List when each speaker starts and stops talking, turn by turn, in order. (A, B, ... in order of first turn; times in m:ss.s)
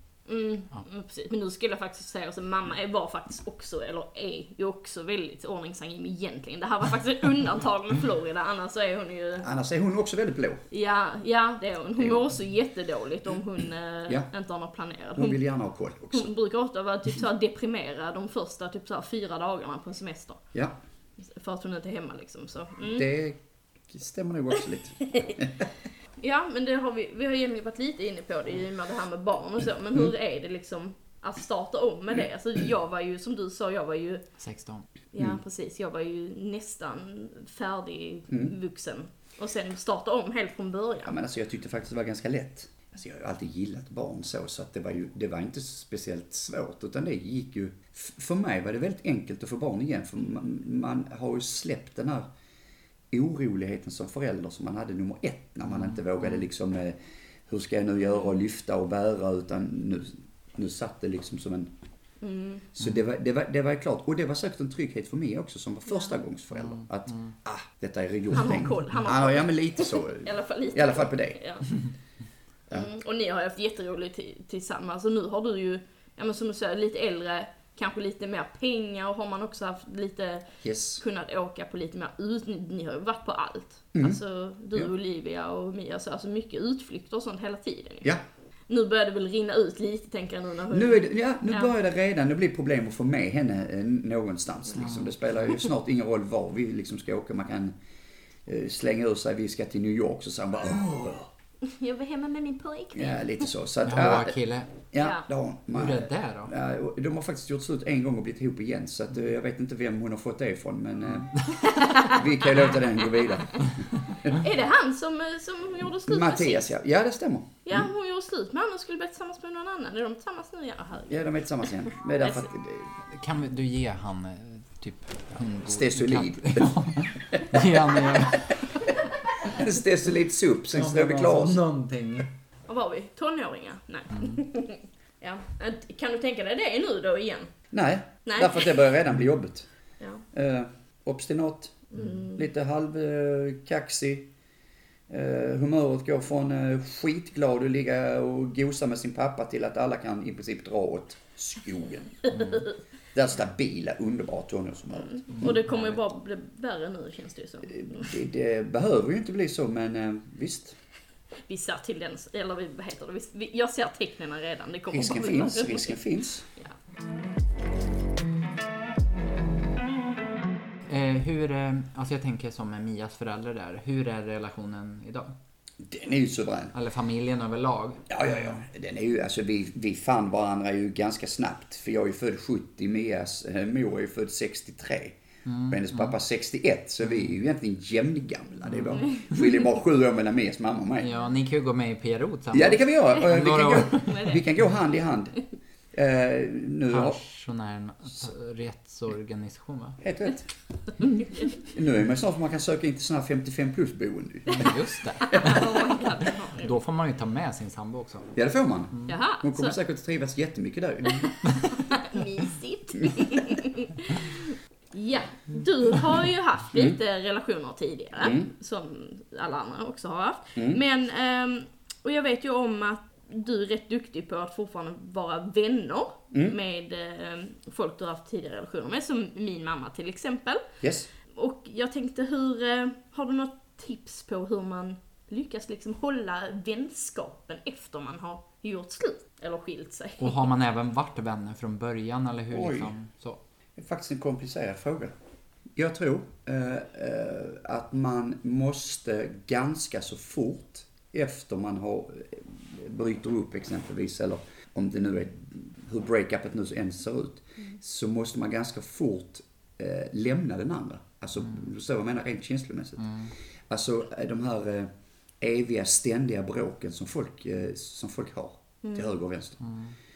0:00.3-0:09.5 A
0:09.4-0:10.6 B
0:10.7-0:15.4 A
0:12.0-0:12.3 B
0:15.2-0:16.3 B
0:16.1-0:20.4 A
0:21.2-0:23.1 A
0:22.8-0:25.7 B
0:26.2-0:34.2 A
0:34.4-0:34.8 C
0:35.1-0:41.1 A
0:41.0-0:52.3 B
0:53.1-1:01.7 B
1:02.2-1:02.6 A
1:02.7-1:11.4 B
1:06.6-1:07.3 C
1:08.3-1:11.7 A
1:12.7-1:20.5 A
1:20.6-1:21.0 B
1:21.0-1:28.1 A
1:23.9-1:24.2 B
1:28.7-1:31.7 A
1:30.7-1:37.7 B
1:34.8-1:35.2 C
1:38.5-1:41.3 B
1:41.6-1:43.2 A
1:42.9-1:44.4 B
1:43.8-1:44.7 C
1:44.9-1:54.4 B
1:45.0-1:45.3 A
1:45.7-1:46.5 C
1:51.2-1:51.6 C
1:51.6-1:52.2 A
1:54.3-1:56.7 A
1:56.1-1:57.8 B
1:57.6-2:01.3 A
2:01.1-2:02.9 B
2:02.2-2:02.5 A
2:03.1-2:08.9 C
2:05.6-2:08.4 B
2:09.4-2:11.6 B
2:10.7-2:12.3 C
2:12.7-2:17.5 A
2:14.2-2:14.4 C
2:17.7-2:19.7 B
2:18.3-2:18.7 A
2:20.3-2:24.3 B
2:21.9-2:22.4 A
2:25.1-2:32.6 B
2:32.3-2:32.6 C
2:33.1-2:35.6 B
2:35.1-2:38.2 A
2:35.3-2:36.0 C
2:37.7-2:40.8 B
2:41.5-2:46.0 A
2:44.9-2:46.5 B
2:50.9-2:55.3 C
2:55.8-2:56.7 B
2:56.7-2:58.6 C
2:58.1-3:11.1 B
3:05.5-3:06.2 C
3:08.7-3:09.4 C
3:11.0-3:14.4 C
3:12.5-3:15.4 B
3:14.0-3:14.4 A
3:15.9-3:17.2 B
3:16.9-3:20.0 C
3:20.0-3:20.5 B
3:21.6-3:24.7 B
3:24.5-3:25.9 C
3:25.2-3:26.7 A
3:25.3-3:25.6 B
3:26.6-3:28.3 C
3:28.4-3:31.3 B
3:29.1-3:29.8 A
3:31.7-3:50.6 A
3:38.2-3:38.5 B
3:40.6-3:40.8 B
3:50.8-3:51.1 B
3:51.3-4:00.4 A
4:00.2-4:03.4 C
4:02.5-4:02.9 B
4:03.8-4:05.1 B
4:05.8-4:29.6 B
4:23.0-4:23.3 C
4:29.6-4:29.9 C